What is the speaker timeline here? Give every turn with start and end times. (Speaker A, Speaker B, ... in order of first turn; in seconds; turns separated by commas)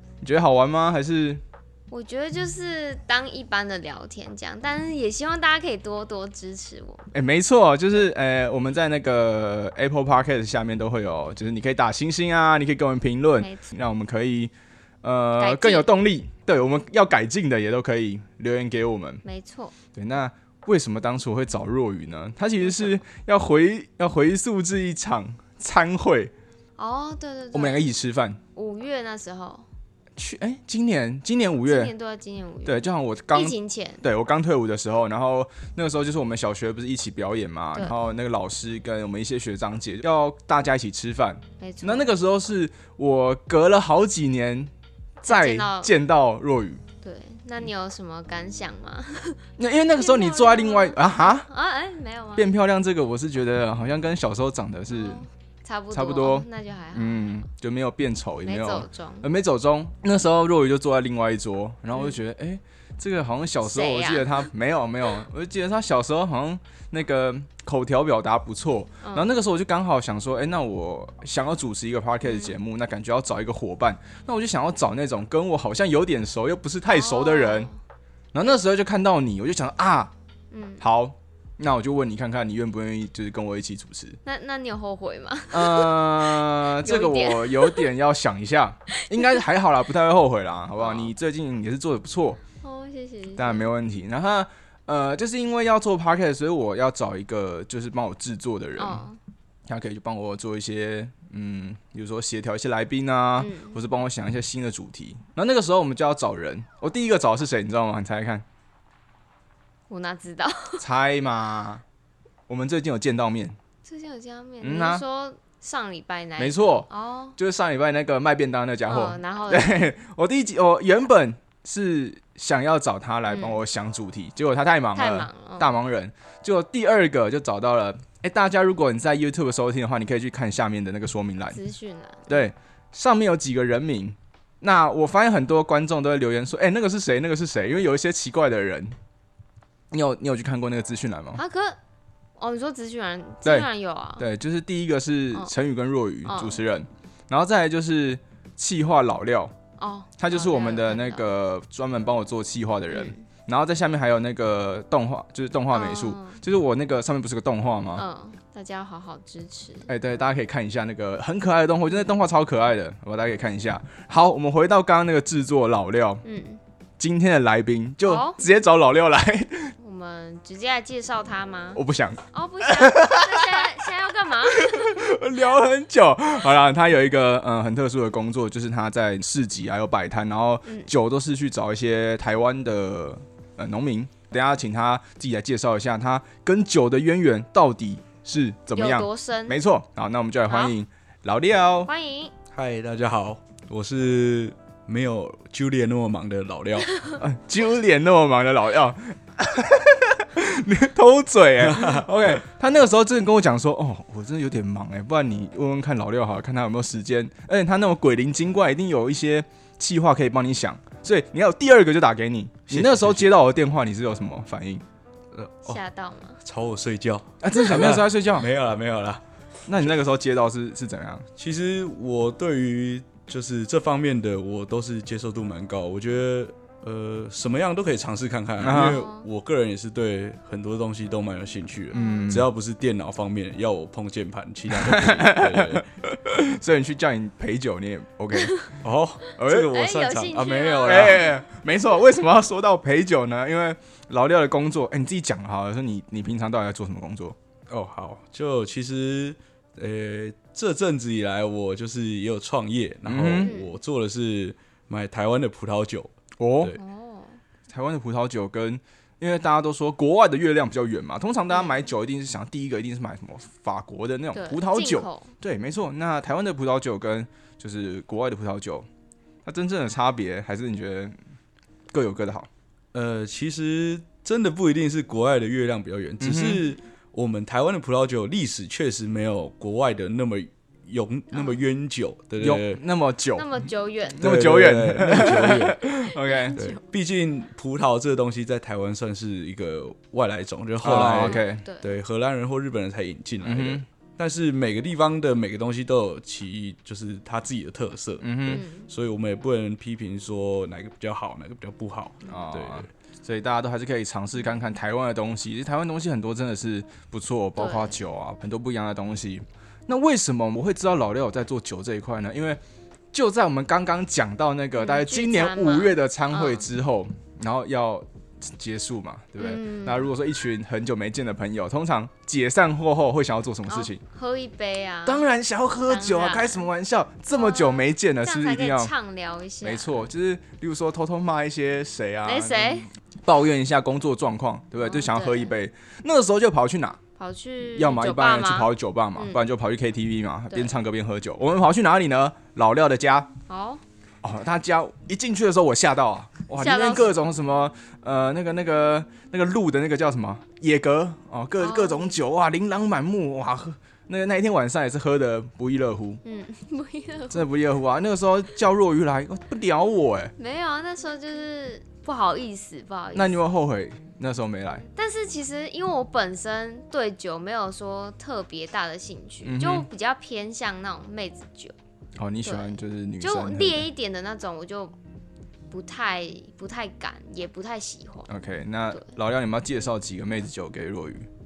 Speaker A: 0.2-1.4, Speaker B: 1.9-7.1, Speaker A: 7.1-14.5, Speaker B: 13.4-13.7, Speaker A: 15.0-19.2, Speaker B: 15.4-15.9, Speaker B: 19.2-19.7, Speaker A: 19.9-26.3, Speaker B: 26.8-27.9, Speaker A: 27.5-28.4, Speaker B: 28.6-29.7, Speaker A: 30.2-31.9, Speaker B: 31.6-34.0, Speaker A: 32.6-44.7, Speaker B: 37.7-38.0, Speaker B: 41.6-42.1, Speaker B: 45.2-45.9, Speaker A: 45.3-46.8, Speaker B: 47.0-49.4, Speaker A: 49.6-51.5, Speaker B: 50.0-52.5, Speaker A: 52.4-55.2, Speaker B: 54.9-57.5, Speaker A: 55.9-77.7, Speaker B: 58.5-59.3, Speaker B: 61.9-62.2, Speaker B: 63.6-64.5, Speaker B: 69.0-69.3, Speaker B: 72.2-72.6, Speaker B: 76.9-77.8, Speaker A: 78.3-80.1, Speaker B: 80.5-80.9, Speaker A: 80.8-84.2, Speaker B: 84.2-87.9, Speaker A: 85.5-92.4, Speaker B: 88.9-89.4, Speaker B: 90.8-91.1, Speaker B: 92.6-93.7, Speaker A: 93.4-99.0, Speaker B: 98.8-99.2, Speaker A: 99.7-108.5, Speaker B: 103.4-103.8, Speaker B: 109.9-110.8, Speaker A: 110.8-111.8, Speaker A: 112.5-113.6, Speaker B: 113.8-117.3, Speaker A: 114.6-115.0, Speaker A: 116.4-131.6, Speaker B: 118.9-119.9, Speaker B: 123.3-123.6, Speaker B: 124.9-125.8, Speaker B: 131.5-132.4, Speaker A: 132.3-138.9, Speaker A: 139.9-141.4, Speaker B: 141.3-141.8, Speaker B: 142.4-144.3, Speaker A: 143.4-149.5, Speaker B: 146.3-146.6, Speaker B: 149.8-151.3, Speaker A: 150.2-158.0, Speaker B: 152.9-153.2, Speaker B: 155.7-156.4, Speaker B: 158.0-159.9, Speaker A: 159.9-166.2, Speaker B: 166.2-166.6, Speaker A: 167.0-169.7, Speaker B: 168.0-168.4, Speaker B: 169.8-171.8, Speaker A: 171.7-173.9, Speaker B: 172.3-175.0, Speaker A: 174.5-191.9, Speaker B: 188.7-189.6, Speaker B: 190.5-190.8, Speaker B: 191.9-192.3, Speaker C: 192.5-196.9, Speaker A: 197.2-214.8, Speaker C: 201.6-202.1, Speaker C: 212.7-213.3, Speaker C: 215.3-215.8, Speaker B: 215.7-216.4, Speaker C: 216.4-219.2, Speaker A: 217.4-218.5, Speaker A: 219.7-221.3, Speaker C: 221.4-235.9, Speaker A: 228.6-229.0, Speaker B: 228.7-229.3, Speaker B: 231.9-232.3, Speaker A: 232.0-232.5, Speaker A: 234.7-238.8, Speaker C: 238.8-241.3, Speaker A: 239.4-239.7, Speaker B: 239.5-241.4, Speaker A: 240.8-247.4, Speaker C: 247.7-256.8, Speaker A: 253.1-253.5, Speaker B: 253.4-253.8, Speaker A: 256.4-256.8, Speaker B: 256.8-257.4, Speaker A: 257.7-268.9, Speaker B: 261.5-261.9, Speaker B: 264.3-265.3, Speaker A: 269.5-271.2, Speaker A: 271.9-272.5, Speaker C: 272.9-282.8, Speaker A: 276.2-276.6, Speaker A: 282.4-283.5, Speaker B: 283.4-284.3, Speaker A: 284.2-286.6, Speaker C: 284.2-285.8, Speaker B: 285.2-286.8, Speaker C: 286.5-302.9, Speaker A: 290.8-291.6, Speaker B: 291.2-292.0, Speaker A: 293.4-293.8, Speaker A: 298.2-298.6, Speaker B: 298.5-298.9, Speaker A: 302.2-312.6, Speaker B: 307.6-308.0, Speaker A: 313.1-324.0, Speaker B: 314.8-316.7, Speaker B: 319.4-320.1, Speaker B: 323.7-325.2, Speaker A: 325.1-328.9, Speaker B: 325.9-326.7, Speaker B: 327.3-330.0, Speaker A: 329.6-337.0, Speaker B: 332.3-332.9, Speaker B: 334.8-335.6, Speaker B: 337.2-339.4, Speaker A: 337.8-343.3, Speaker B: 343.5-343.8, Speaker A: 344.2-356.2, Speaker B: 346.6-347.3, Speaker B: 351.6-352.1, Speaker B: 356.2-357.5, Speaker A: 357.3-360.3, Speaker B: 360.4-363.4, Speaker A: 363.1-364.9, Speaker B: 364.9-371.7, Speaker A: 369.4-369.9, Speaker A: 372.2-373.9, Speaker B: 372.4-374.9, Speaker B: 375.7-378.3, Speaker A: 378.3-381.3